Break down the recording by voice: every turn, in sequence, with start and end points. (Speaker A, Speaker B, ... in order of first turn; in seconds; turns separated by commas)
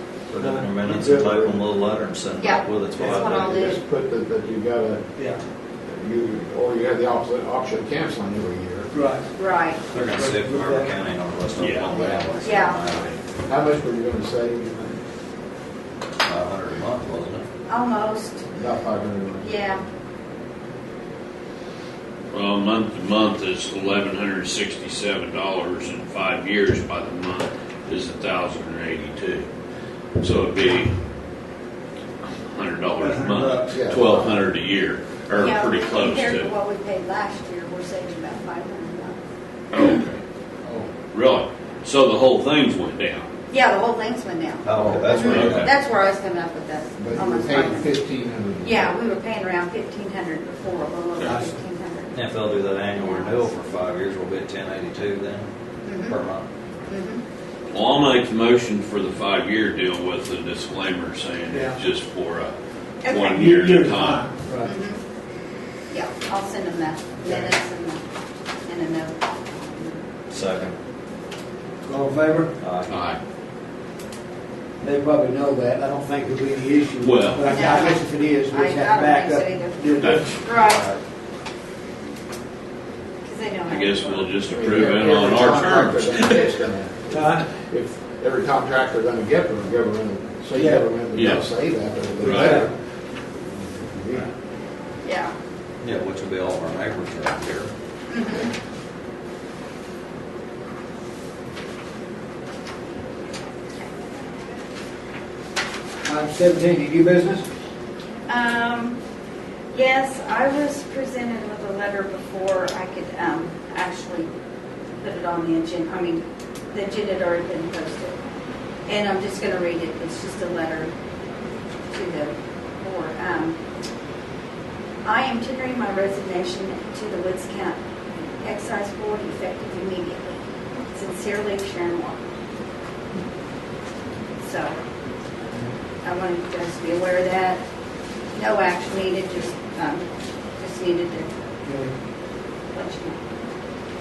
Speaker A: 0.3-3.6, Speaker B: 0.4-1.5, Speaker C: 2.4-3.8, Speaker B: 3.0-3.3, Speaker D: 3.3-5.0, Speaker B: 5.2-5.4, Speaker D: 5.8-8.9, Speaker B: 8.9-9.3, Speaker C: 9.3-9.8, Speaker A: 9.9-13.2, Speaker B: 10.0-10.9, Speaker E: 11.6-12.0, Speaker C: 12.4-12.8, Speaker D: 13.4-15.0, Speaker A: 16.2-17.4, Speaker C: 17.7-18.5, Speaker D: 18.5-19.5, Speaker C: 19.4-19.8, Speaker E: 22.3-29.4, Speaker E: 30.2-30.9, Speaker E: 32.2-36.5, Speaker B: 33.0-33.8, Speaker D: 33.7-34.4, Speaker C: 35.3-39.2, Speaker E: 39.7-40.2, Speaker D: 40.6-40.9, Speaker E: 41.1-43.3, Speaker C: 43.5-47.9, Speaker A: 44.6-45.7, Speaker E: 45.2-45.7, Speaker D: 47.0-49.0, Speaker C: 48.6-52.1, Speaker B: 51.2-51.5, Speaker A: 52.1-55.5, Speaker C: 52.9-53.5, Speaker C: 55.8-56.2, Speaker A: 56.0-56.4, Speaker C: 56.9-57.2, Speaker E: 57.7-62.5, Speaker B: 61.5-61.8, Speaker C: 63.0-63.4, Speaker E: 63.0-64.3, Speaker B: 63.3-64.7, Speaker C: 64.6-65.0, Speaker C: 65.9-68.0, Speaker B: 67.2-67.5, Speaker C: 68.7-70.0, Speaker A: 70.3-70.8, Speaker B: 71.8-72.5, Speaker A: 72.6-72.9, Speaker E: 72.8-73.2, Speaker B: 74.8-81.0, Speaker E: 77.0-77.6, Speaker C: 77.4-80.9, Speaker E: 80.0-80.4, Speaker C: 83.2-84.4, Speaker E: 83.7-86.5, Speaker D: 84.4-92.7, Speaker B: 87.1-87.5, Speaker B: 90.5-90.9, Speaker E: 91.1-91.5, Speaker E: 92.2-92.6, Speaker B: 92.2-92.7, Speaker D: 93.5-94.3, Speaker C: 95.0-95.3, Speaker A: 95.8-97.7, Speaker C: 98.1-98.5, Speaker B: 106.0-107.5, Speaker C: 108.3-109.0, Speaker C: 109.7-114.3, Speaker C: 115.0-118.2, Speaker C: 118.9-120.9, Speaker C: 121.9-123.6, Speaker C: 125.0-127.8, Speaker C: 128.4-132.2, Speaker C: 134.4-134.8, Speaker C: 136.0-137.6, Speaker C: 138.3-140.1, Speaker C: 140.6-141.3, Speaker B: 141.7-141.9, Speaker C: 142.7-143.2